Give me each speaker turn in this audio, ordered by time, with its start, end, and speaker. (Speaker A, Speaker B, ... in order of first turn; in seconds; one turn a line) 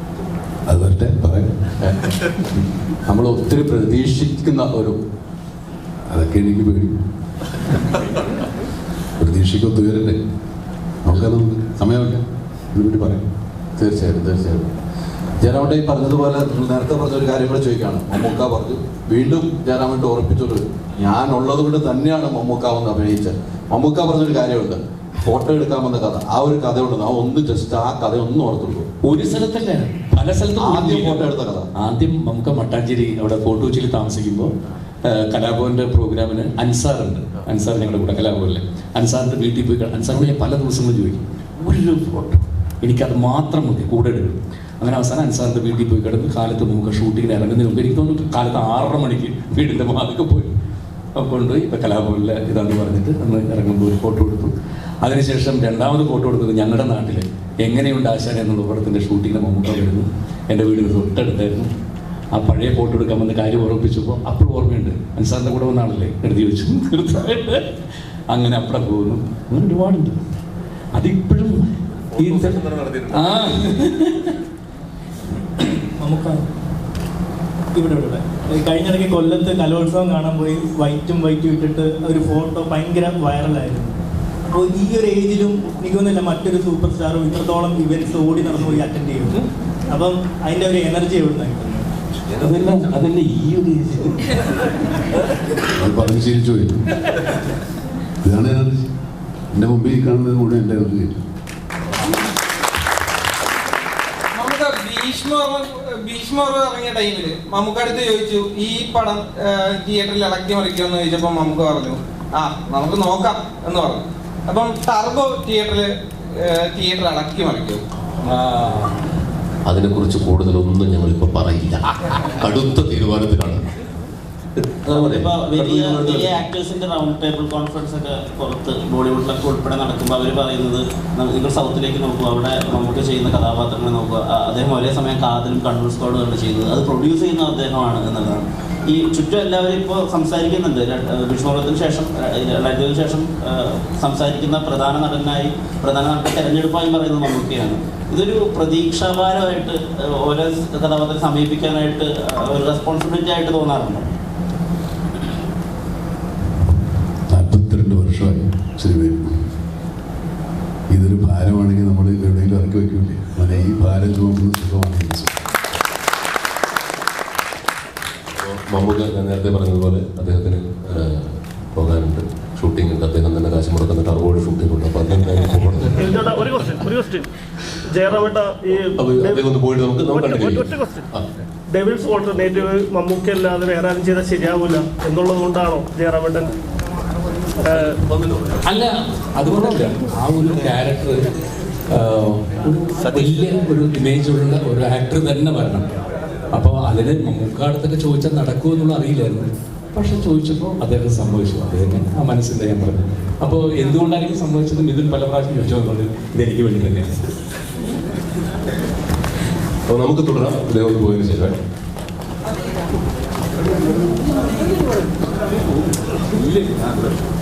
Speaker A: 0.7-1.6
Speaker B: 3.1-5.0
Speaker A: 6.1-6.9
Speaker A: 9.2-10.2
Speaker A: 11.0-12.2
Speaker A: 12.7-13.2
Speaker B: 13.8-14.7
Speaker B: 15.4-28.9
Speaker C: 29.0-34.5
Speaker B: 30.6-31.7
Speaker C: 35.0-50.5
Speaker C: 51.2-61.7
Speaker C: 62.3-67.6
Speaker C: 68.3-70.2
Speaker C: 71.0-74.3
Speaker D: 72.2-73.3
Speaker E: 76.0-76.5
Speaker E: 77.7-84.0
Speaker E: 84.5-91.9
Speaker C: 92.4-94.5
Speaker A: 95.8-96.8
Speaker A: 98.2-98.9
Speaker A: 99.5-101.2
Speaker F: 104.3-117.8
Speaker C: 118.3-118.9
Speaker D: 119.7-123.7
Speaker D: 124.6-126.4
Speaker G: 124.9-154.1
Speaker A: 157.3-159.4
Speaker A: 160.9-165.4
Speaker D: 168.3-176.2
Speaker H: 175.9-177.3
Speaker H: 177.9-179.5
Speaker D: 179.0-181.2
Speaker H: 180.1-181.1
Speaker H: 181.7-186.5
Speaker H: 187.7-188.0
Speaker D: 188.1-188.5
Speaker C: 188.7-191.3
Speaker C: 191.9-195.8
Speaker C: 196.5-207.2
Speaker D: 209.9-211.6
Speaker C: 216.3-217.1